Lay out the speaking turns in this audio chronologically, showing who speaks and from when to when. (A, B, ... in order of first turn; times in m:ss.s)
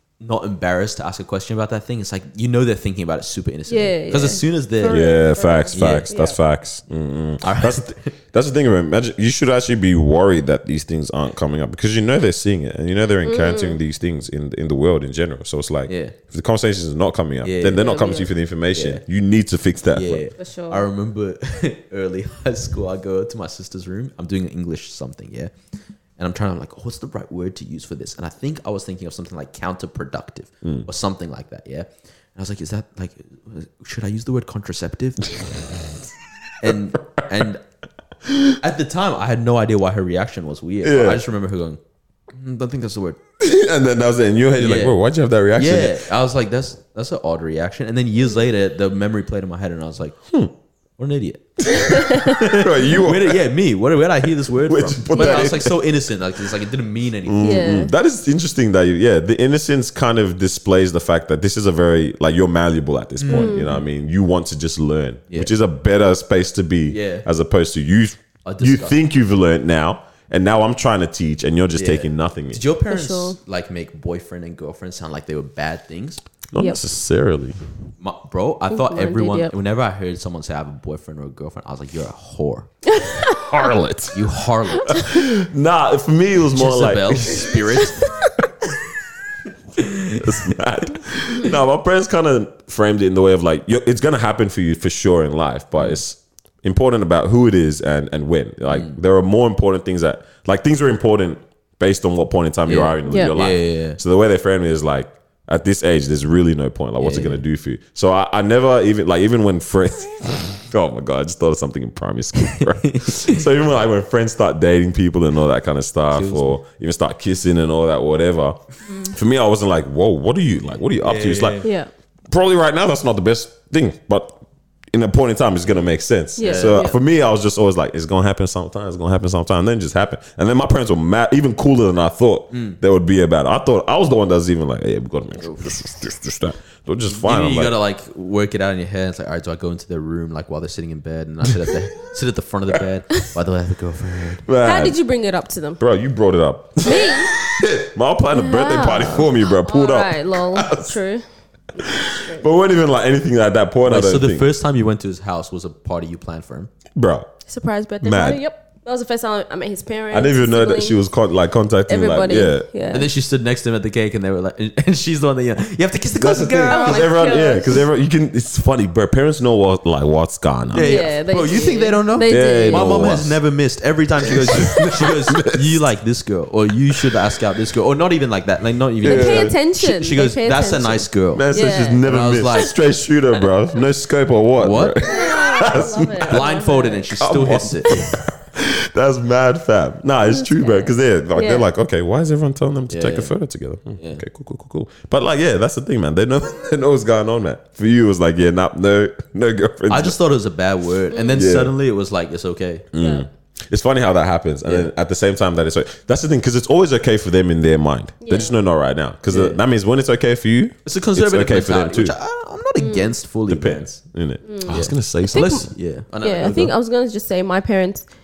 0:00.2-0:05.0 A
0:03.7-0:06.4 B
0:04.9-0:20.2 C
0:05.7-0:06.1 A
0:07.4-0:08.1 A
0:13.2-0:13.8 B
0:15.9-0:16.2 A
0:17.4-0:18.0 A
0:17.8-0:18.3 B
0:18.7-0:19.0 A
0:19.9-0:25.5 A
0:20.4-0:20.9 B
0:26.2-0:35.4 A
0:36.6-0:37.6 A
0:36.6-0:37.2 C
0:38.2-0:38.6 C
0:38.6-0:41.8 A
0:40.8-0:41.2 C
0:42.3-0:43.2 A
0:43.4-0:46.0 C
0:44.6-0:44.9 A
0:45.6-0:50.2 A
0:51.0-0:51.4 A
0:51.6-0:53.4 C
0:51.8-0:52.4 B
0:52.1-0:57.6 A
0:54.6-0:55.7 C
0:55.1-0:55.5 B
0:57.2-1:12.6 C
0:57.4-0:57.9 B
1:03.2-1:03.7 A
1:03.3-1:03.8 B
1:06.9-1:07.2 A
1:08.4-1:09.0 A
1:11.7-1:16.2 A
1:12.9-1:13.4 B
1:16.5-1:17.6 C
1:16.6-1:16.8 B
1:18.0-1:22.7 A
1:18.7-1:19.5 B
1:22.9-1:23.5 B
1:23.3-1:24.2 C
1:24.1-1:25.0 A
1:24.9-1:25.2 B
1:24.9-1:28.5 C
1:26.5-1:28.0 A
1:29.8-1:30.4 A
1:30.1-2:01.6 C
1:38.7-1:39.0 A
1:42.7-1:44.0 A
1:43.1-1:43.3 B
1:47.0-1:47.4 A
1:52.5-1:53.4 A
1:56.1-1:56.6 A
2:01.0-2:01.7 A
2:01.6-2:01.9 B
2:02.3-2:04.4 C
2:04.9-2:17.8 C
2:06.4-2:07.0 B
2:06.4-2:06.9 A
2:12.5-2:12.8 A
2:15.4-2:15.8 A
2:17.1-2:24.4 A
2:24.4-2:25.0 C
2:24.6-2:25.8 B
2:25.8-2:30.9 C
2:26.8-2:27.4 B
2:28.3-2:31.2 B
2:31.8-2:34.5 C
2:31.8-2:32.4 B
2:33.8-2:36.7 A
2:36.9-2:37.3 C
2:37.5-2:41.0 B
2:38.0-2:38.4 C
2:40.1-2:42.6 C
2:41.9-2:43.1 B
2:42.9-2:47.1 A
2:46.2-2:51.0 C
2:46.7-2:47.8 B
2:50.7-3:01.4 A
2:50.8-2:53.0 B
2:52.3-2:53.4 C
2:54.2-2:55.8 C
2:59.0-3:02.1 B
2:59.0-2:59.5 C
3:01.3-3:06.4 C
3:02.0-3:02.7 A
3:04.6-3:05.0 A
3:05.0-3:07.1 B
3:06.3-3:08.1 A
3:07.2-3:20.2 C
3:10.3-3:11.6 B
3:12.9-3:13.3 A
3:14.0-3:14.2 A
3:19.9-3:22.9 A
3:21.1-3:21.4 B
3:21.3-3:21.7 C
3:22.9-3:32.2 C
3:23.0-3:23.3 B
3:28.2-3:28.5 B
3:29.3-3:29.6 A
3:30.8-3:33.9 A
3:32.8-3:33.1 B
3:33.5-3:35.7 C
3:34.4-3:35.7 B
3:34.7-3:36.7 A
3:36.2-3:38.0 B